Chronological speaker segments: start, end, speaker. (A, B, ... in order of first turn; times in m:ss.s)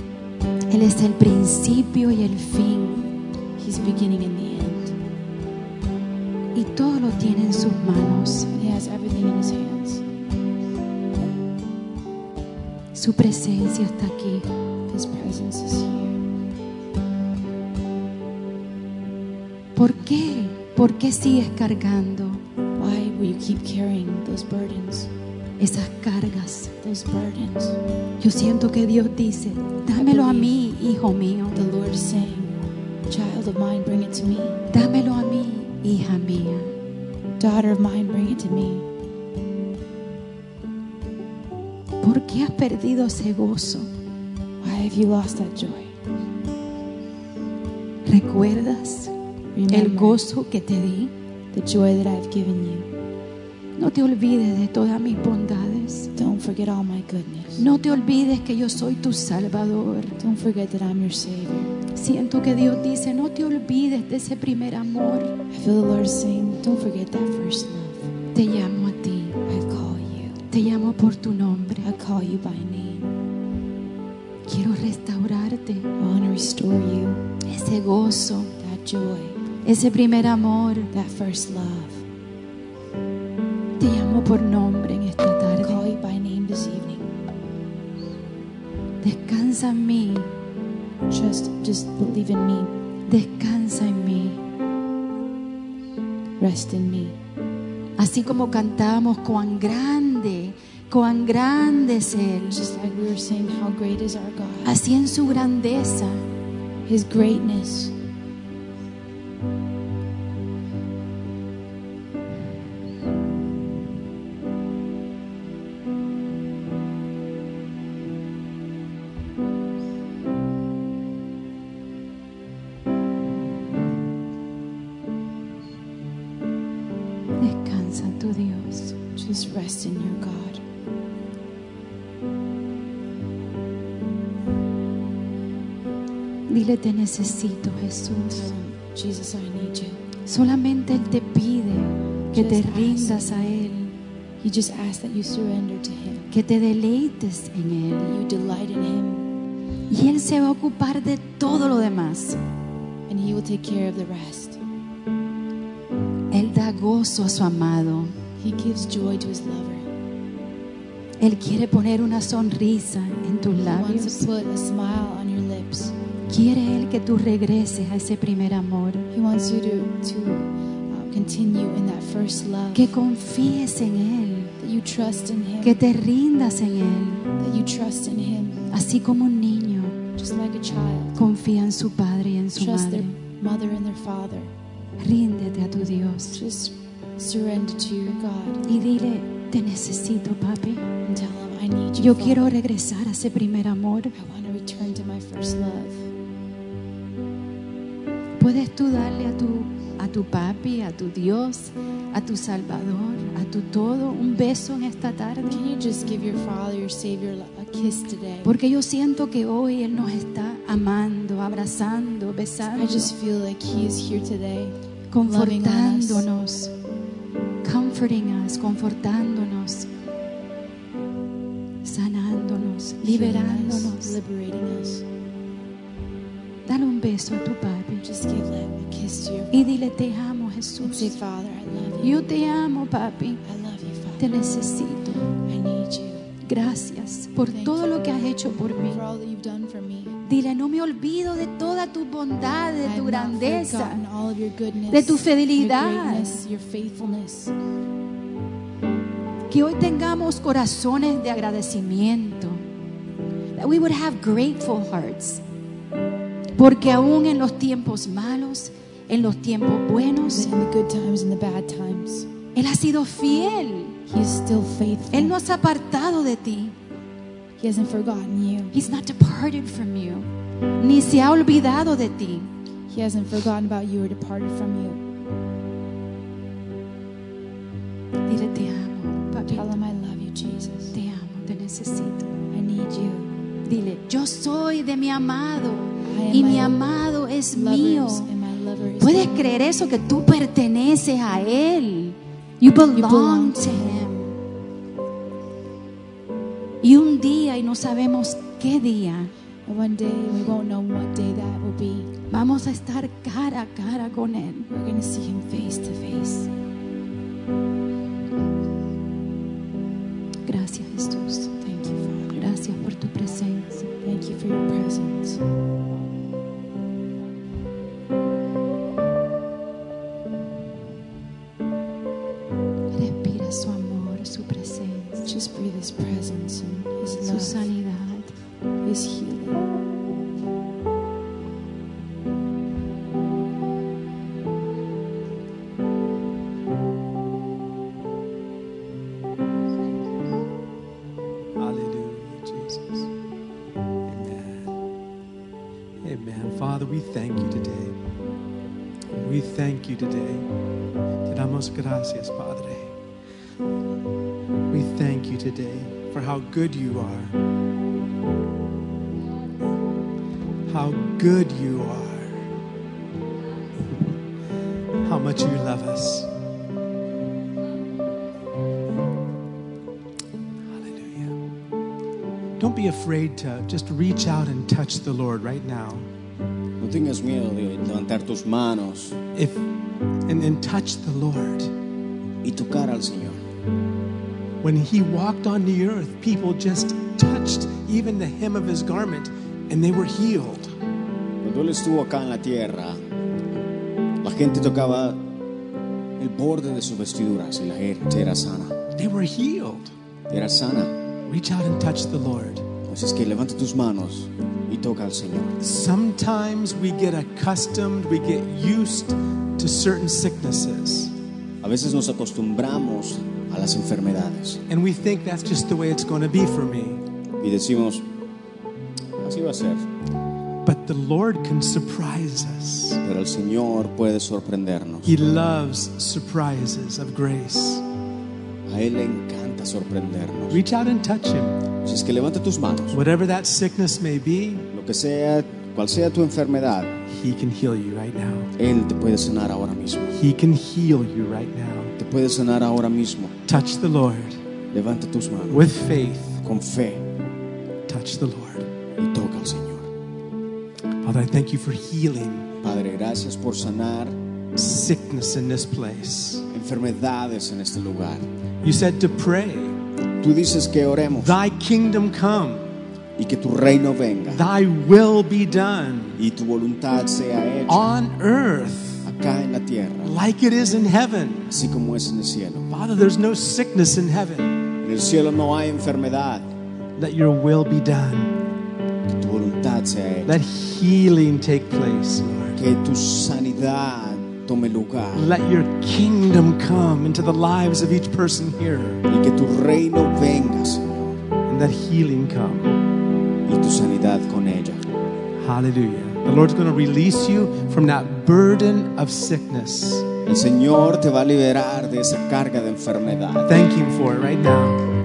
0:00.7-0:03.2 A
0:03.6-0:05.0 B
0:06.5-0:08.5 A
0:08.5-0:10.0 B
0:12.9-0:14.5 A
0:14.9-0:16.2 B
0:19.7-0:22.4 A
0:22.8-0:25.1 B
0:25.6-0:26.7 A
0:26.8-0:27.8 B
0:28.2-0:31.6 A
0:29.9-0:30.5 B
0:31.5-0:32.6 B
0:33.1-0:34.6 B
0:34.7-0:36.7 A
0:37.4-0:38.9 B
0:42.0-0:43.9 A
0:44.6-0:45.9 B
0:48.0-0:49.1 A
0:49.5-0:50.2 B
0:49.7-0:51.1 A
0:51.5-0:52.9 B
0:53.8-0:56.1 A
0:56.2-0:57.6 B
0:57.6-1:00.2 A
1:00.2-1:01.7 B
1:01.9-1:05.3 A
1:05.5-1:08.1 B
1:08.3-1:09.4 A
1:09.5-1:10.5 B
1:10.5-1:11.9 A
1:11.8-1:13.1 B
1:14.4-1:15.9 A
1:16.0-1:17.2 B
1:17.5-1:18.5 A
1:18.6-1:19.4 B
1:19.6-1:20.9 A
1:20.9-1:22.0 B
1:23.8-1:25.9 A
1:25.6-1:27.2 B
1:29.0-1:30.3 A
1:31.1-1:32.8 B
1:33.1-1:34.4 A
1:36.4-1:37.2 B
1:38.0-1:42.6 A
1:42.5-1:44.8 B
1:44.6-1:46.2 A
1:46.8-1:47.9 B
2:07.4-2:09.0 A
2:09.1-2:10.6 B
2:16.5-2:18.5 A
2:18.3-2:20.0 B
2:20.2-2:23.9 A
2:22.3-2:23.8 B
2:24.4-2:26.3 B
2:26.3-2:28.1 A
2:28.0-2:29.3 B
2:29.9-2:32.4 A
2:33.1-2:34.6 B
2:36.3-2:38.1 A
2:38.4-2:39.9 B
2:41.2-2:44.3 A
2:43.5-2:45.9 B
2:46.3-2:49.1 A
2:49.1-2:52.9 B
2:52.7-2:54.5 A
2:54.6-2:55.8 B
2:55.6-2:57.3 A
2:57.4-2:58.7 B
2:58.7-3:00.0 A
3:00.1-3:01.2 B
3:01.1-3:03.2 A
3:02.5-3:04.5 B
3:05.0-3:06.4 A
3:06.3-3:08.6 B
3:08.6-3:10.8 A
3:11.0-3:12.5 B
3:12.0-3:14.1 A
3:14.1-3:16.1 B
3:18.4-3:25.6 A
3:25.5-3:28.5 B
3:28.4-3:33.1 A
3:32.7-3:36.3 B
3:35.1-3:36.7 A
3:37.6-3:39.9 A
3:41.8-3:44.2 A
3:43.0-3:45.0 B
3:46.6-3:48.0 A
3:48.0-3:49.7 B
3:49.5-3:51.1 A
3:50.8-3:52.3 B
3:52.0-3:53.4 A
3:53.4-3:54.3 B
3:54.2-3:55.3 A
3:55.3-3:56.3 B
3:56.4-3:59.0 A
3:57.5-3:57.8 B
3:58.9-4:00.2 B
4:00.2-4:04.0 A
4:02.8-4:07.5 B
4:04.9-4:06.4 A
4:09.5-4:12.6 A
4:13.6-4:15.4 A
4:16.5-4:20.6 A
4:20.2-4:22.3 B
4:22.5-4:24.0 A
4:24.1-4:25.3 B
4:25.1-4:26.7 A
4:27.6-4:28.7 B
4:28.7-4:32.5 A
4:32.9-4:35.0 B
4:38.3-4:39.7 A
4:39.5-4:40.9 B
4:40.9-4:42.3 A
4:42.5-4:43.4 B
4:43.6-4:48.3 A
4:46.0-4:46.8 B
4:47.5-4:49.5 B
4:49.0-4:54.2 A
4:52.9-4:54.3 B
4:56.8-4:59.3 A
4:59.6-5:02.1 B
5:02.3-5:04.7 A
5:04.7-5:06.5 B
5:10.4-5:11.5 A
5:11.6-5:12.4 B
5:12.3-5:13.9 A
5:14.0-5:15.4 B
5:22.9-5:25.3 A
5:25.2-5:27.7 B
5:27.2-5:28.3 A
5:28.8-5:29.6 B
5:41.6-5:43.1 C
5:44.0-5:44.7 C
5:46.0-5:48.0 C
5:49.2-5:50.5 C
5:51.3-5:52.9 C
5:54.7-5:57.3 C
6:00.7-6:02.4 C
6:05.0-6:06.3 C
6:10.7-6:11.3 C
6:12.6-6:16.0 C
6:16.8-6:19.2 D
6:19.3-6:19.6 C
6:20.3-6:21.7 C
6:22.4-6:23.4 D
6:24.6-6:30.7 C
6:31.4-6:33.0 D
6:34.2-6:35.2 D
6:36.2-6:38.8 D
6:38.9-6:39.9 C
6:40.3-6:40.9 D
6:41.3-6:42.6 C
6:42.8-6:45.6 D
6:45.6-6:51.1 C
6:51.6-6:54.6 D
6:54.7-6:57.0 C
6:57.4-6:58.0 D
6:59.2-6:59.8 D
7:00.6-7:03.0 C
7:03.0-7:05.1 D
7:05.0-7:07.8 C
7:08.7-7:10.6 D
7:10.5-7:11.6 C
7:11.8-7:13.0 D
7:12.9-7:14.6 C
7:14.7-7:16.9 D
7:17.1-7:18.5 C
7:18.6-7:20.2 D
7:20.1-7:21.9 C
7:22.0-7:23.3 D
7:23.5-7:24.4 C
7:24.7-7:25.7 D
7:25.5-7:26.4 C
7:26.4-7:27.0 D
7:27.9-7:28.7 C
7:29.0-7:29.9 D
7:31.0-7:32.5 C
7:32.6-7:34.1 D
7:34.5-7:36.4 C
7:36.5-7:38.2 D
7:38.6-7:39.8 C
7:40.2-7:41.3 D
7:41.2-7:42.6 C
7:43.2-7:44.4 D
7:44.3-7:46.2 C
7:46.2-7:47.9 D
7:47.7-7:49.0 C
7:49.0-7:50.1 D
7:50.0-7:51.5 C
7:51.5-7:52.7 D
7:52.7-7:54.6 C
7:54.8-7:56.4 D
7:57.0-7:58.3 C
7:59.1-8:00.3 D
8:00.3-8:02.6 C
8:02.6-8:05.3 D
8:05.1-8:09.0 C
8:09.1-8:11.2 D
8:11.5-8:12.8 C
8:13.4-8:14.8 D
8:15.4-8:20.1 C
8:20.2-8:23.5 D
8:23.4-8:24.8 C